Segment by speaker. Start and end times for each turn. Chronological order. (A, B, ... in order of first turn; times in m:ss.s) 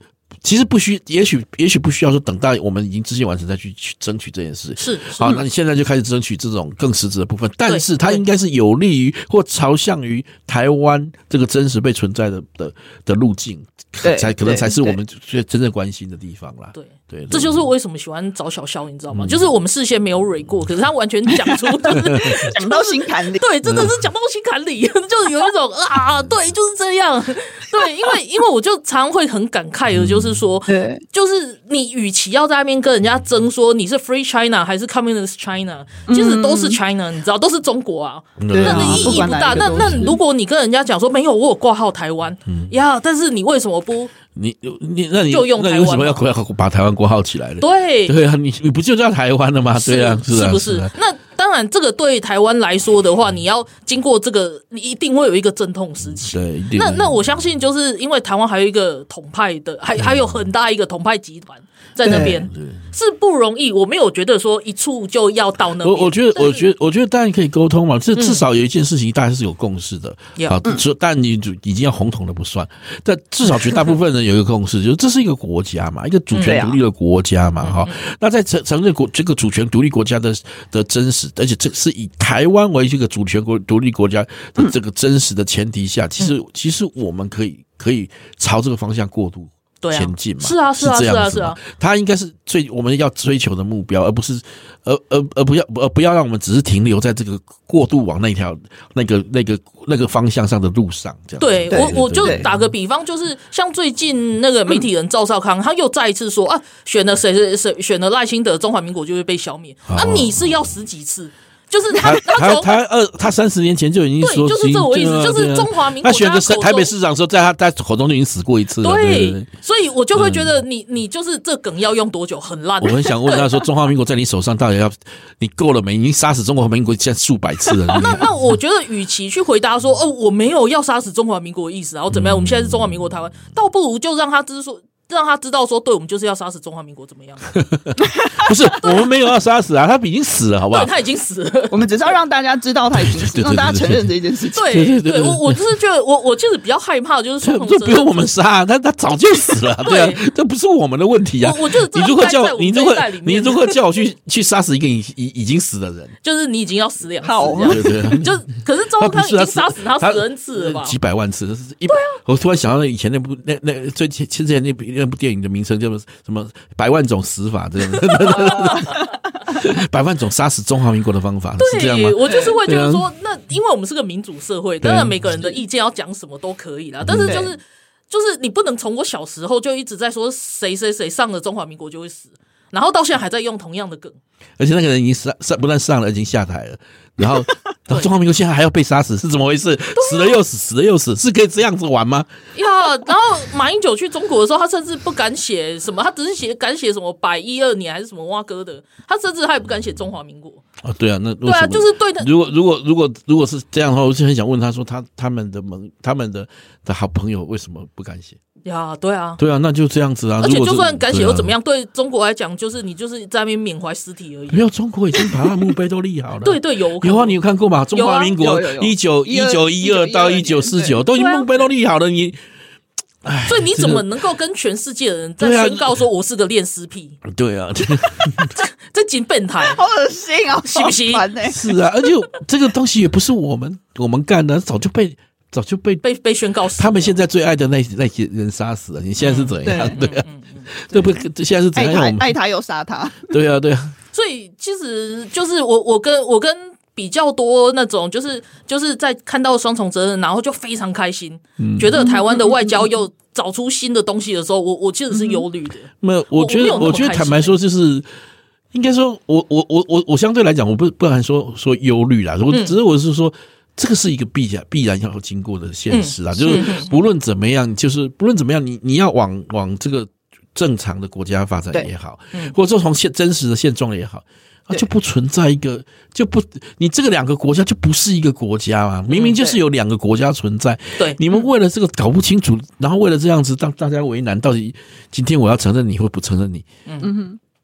0:00.4-0:17.6 A
0:04.8-0:05.3 B
0:07.7-0:08.2 B
0:14.0-0:15.0 C
0:16.7-0:44.1 B
0:19.1-0:19.4 A
0:22.3-0:23.4 C
0:23.6-0:23.9 A
0:29.9-0:30.4 A
0:30.7-0:31.0 C
0:36.1-0:36.8 C
0:38.4-0:40.1 A
0:38.5-0:40.2 C
0:42.5-0:42.7 A
0:44.3-0:50.9 A
0:45.3-0:46.2 B
0:47.6-0:48.1 B
0:49.8-1:06.6 B
0:56.2-0:57.2 A
1:00.0-1:00.3 A
1:02.0-1:02.8 A
1:02.0-1:02.3 C
1:05.8-1:42.6 A
1:08.2-1:08.4 B
1:16.4-1:16.8 C
1:17.6-1:17.9 B
1:29.8-1:31.6 B
1:41.4-1:52.7 B
1:41.7-1:42.4 C
1:49.9-1:50.4 A
1:52.0-1:59.5 A
1:54.2-1:56.9 B
1:58.8-2:03.5 B
2:00.1-2:00.5 A
2:02.8-2:08.3 A
2:07.9-2:17.5 B
2:12.1-2:12.9 A
2:17.6-2:20.9 A
2:20.7-2:21.8 B
2:21.7-2:24.6 C
2:23.0-2:25.6 A
2:24.6-2:28.2 B
2:27.4-2:36.1 A
2:29.8-2:30.2 B
2:31.4-2:33.8 B
2:36.2-2:41.0 B
2:37.2-2:37.8 C
2:37.5-2:53.1 A
2:41.9-2:42.2 B
2:48.4-2:48.8 C
2:51.6-3:04.2 B
2:54.8-2:55.2 A
2:57.0-2:57.4 A
2:57.2-2:57.5 C
3:04.6-3:12.3 A
3:10.0-3:10.4 B
3:12.6-3:20.6 B
3:20.8-3:28.4 A
3:21.4-3:22.3 B
3:28.6-3:29.4 B
3:29.4-3:31.5 A
3:30.4-3:35.3 B
3:34.5-3:42.4 A
3:36.4-3:37.4 B
3:37.9-3:38.3 B
3:38.2-3:41.0 C
3:41.1-3:41.6 B
3:43.2-3:44.1 A
3:43.5-3:47.2 B
3:45.4-3:45.9 A
3:47.2-3:48.5 A
3:48.6-3:49.8 B
3:49.6-3:51.6 C
3:50.6-3:51.3 B
3:51.4-3:56.0 A
3:56.0-3:57.2 B
3:56.8-4:02.4 A
3:59.2-4:00.6 B
3:59.6-4:00.0 C
4:01.7-4:03.4 C
4:03.3-4:03.9 A
4:04.1-4:17.6 B
4:11.6-4:12.0 A
4:12.0-4:12.8 C
4:15.1-4:15.4 C
4:16.0-4:18.1 A
4:18.7-4:46.6 A
4:22.5-4:22.8 B
4:25.9-4:26.9 B
4:26.4-4:26.6 C
4:39.1-4:39.4 B
4:47.0-4:47.4 C